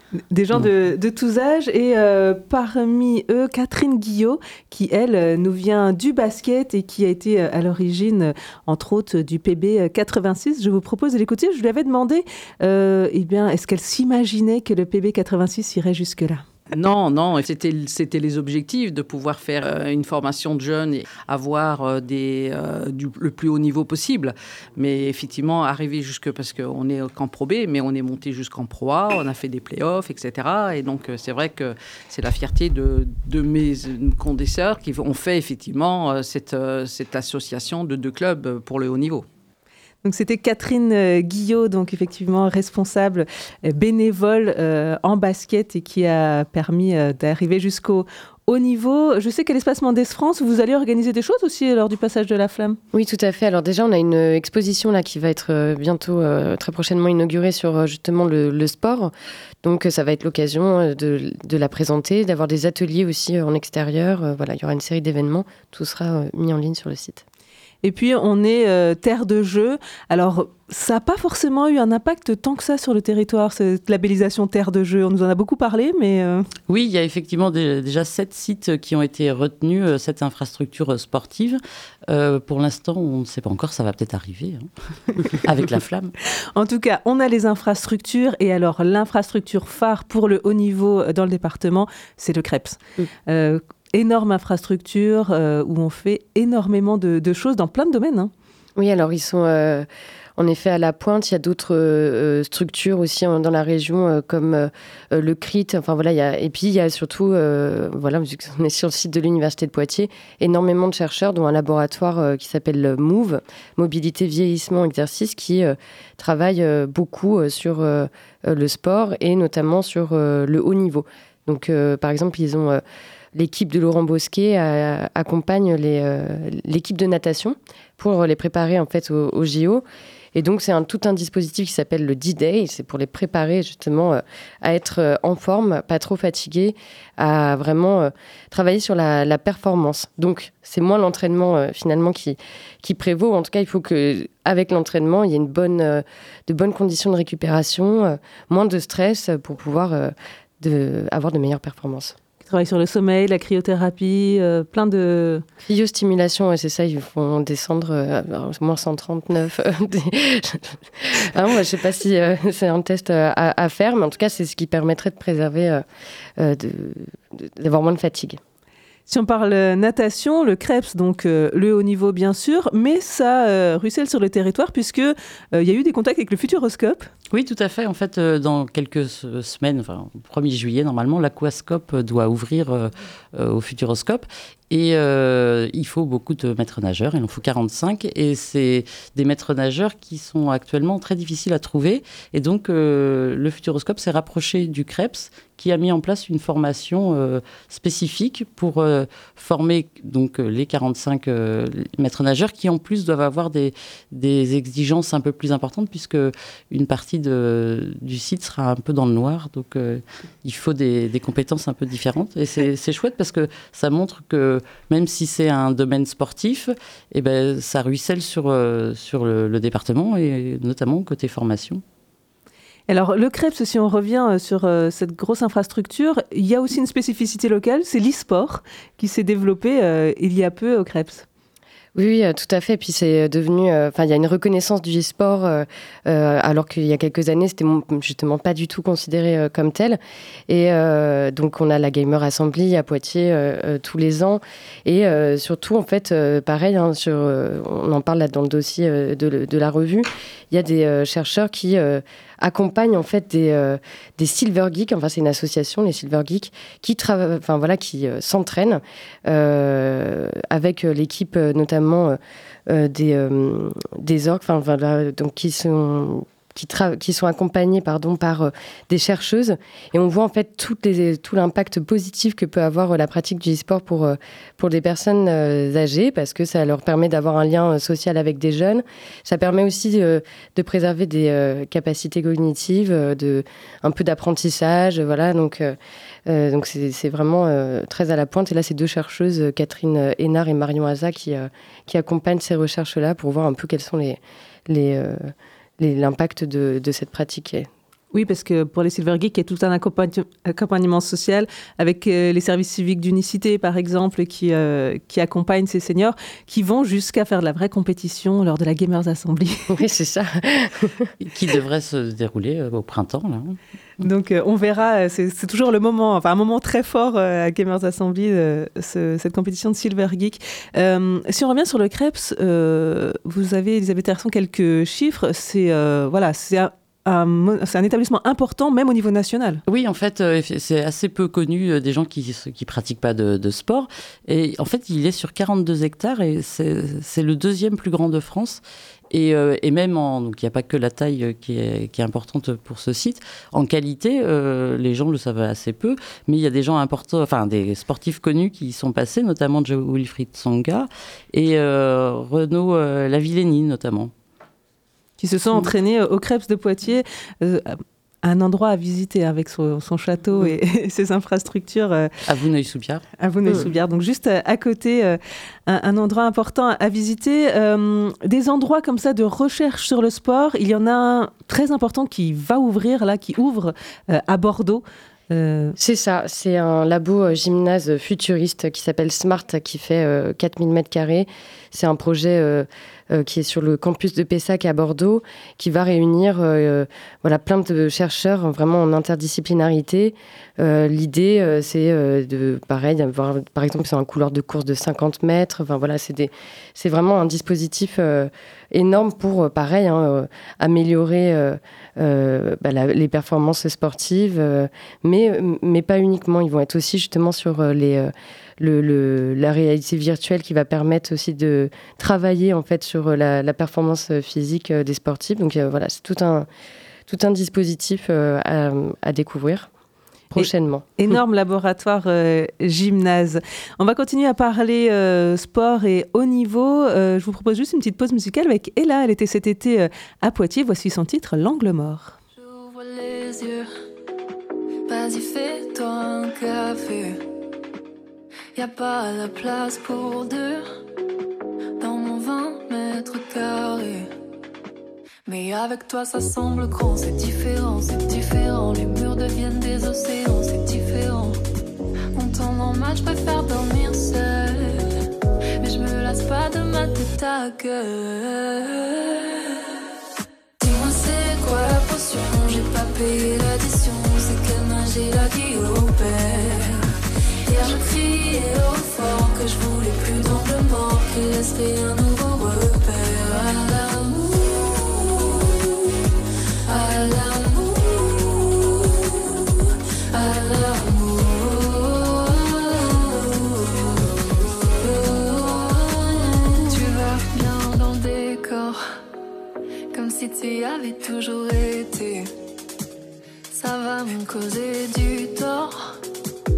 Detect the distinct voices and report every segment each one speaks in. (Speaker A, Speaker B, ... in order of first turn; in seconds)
Speaker A: 0.3-16.4, 40.0-52.8, 67.8-76.5, 86.5-98.3, 152.4-155.4, 169.1-177.1, 222.9-231.2, 298.1-309.8, 314.0-329.6, 355.2-362.1, 363.2-375.8, 420.4-432.2
Speaker B: 16.7-39.2
Speaker C: 52.9-59.1, 59.6-67.2, 98.8-122.8, 123.3-129.8, 130.3-152.2, 155.7-165.8, 166.4-168.4, 231.9-297.7, 309.7-311.1, 375.8-416.5, 417.1-419.7, 420.3-420.9
Speaker D: 76.7-84.7, 85.2-86.1, 177.3-221.8, 311.2-313.6, 329.7-354.1, 362.2-363.7
Speaker E: 432.4-433.7, 434.9-437.2, 438.6-440.7, 441.8-444.1, 445.3-451.4, 452.1-455.1, 455.6-459.8, 460.6-476.0, 476.7-488.8, 489.9-492.3, 493.5-496.0